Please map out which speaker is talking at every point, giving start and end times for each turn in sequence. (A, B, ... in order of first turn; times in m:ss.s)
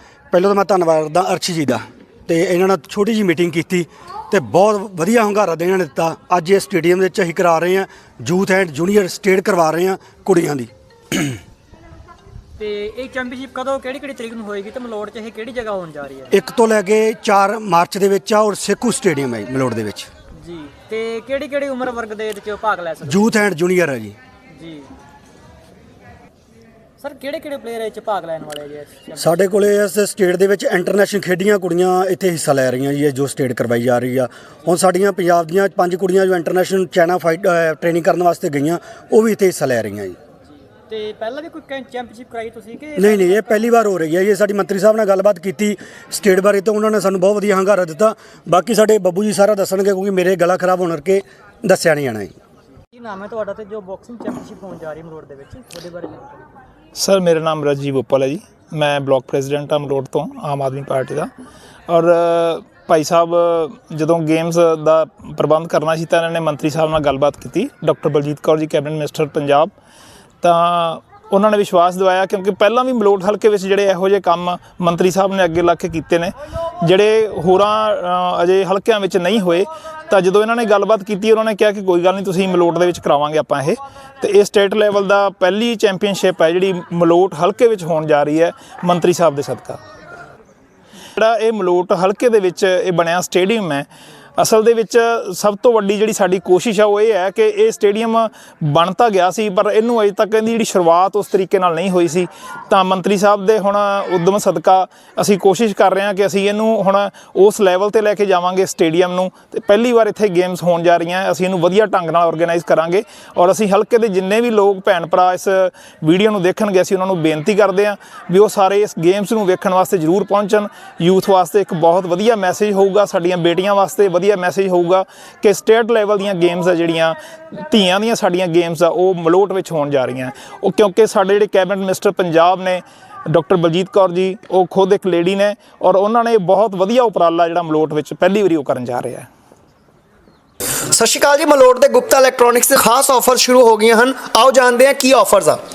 0:00.3-0:11.4 A
0:12.6-0:16.4 B
0:16.3-0:20.1 A
0:20.4-0:23.3 B
0:23.0-0:24.2 A
0:24.5-0:24.9 B
0:27.0-0:29.4 B
0:29.2-0:40.2 A
0:40.9-0:43.8 B
0:43.0-0:52.3 A
0:52.9-0:56.5 B
0:57.0-1:01.3 C
1:01.9-1:09.7 C
1:10.4-1:29.8 C
1:31.2-2:19.3 C
2:20.9-2:25.6 D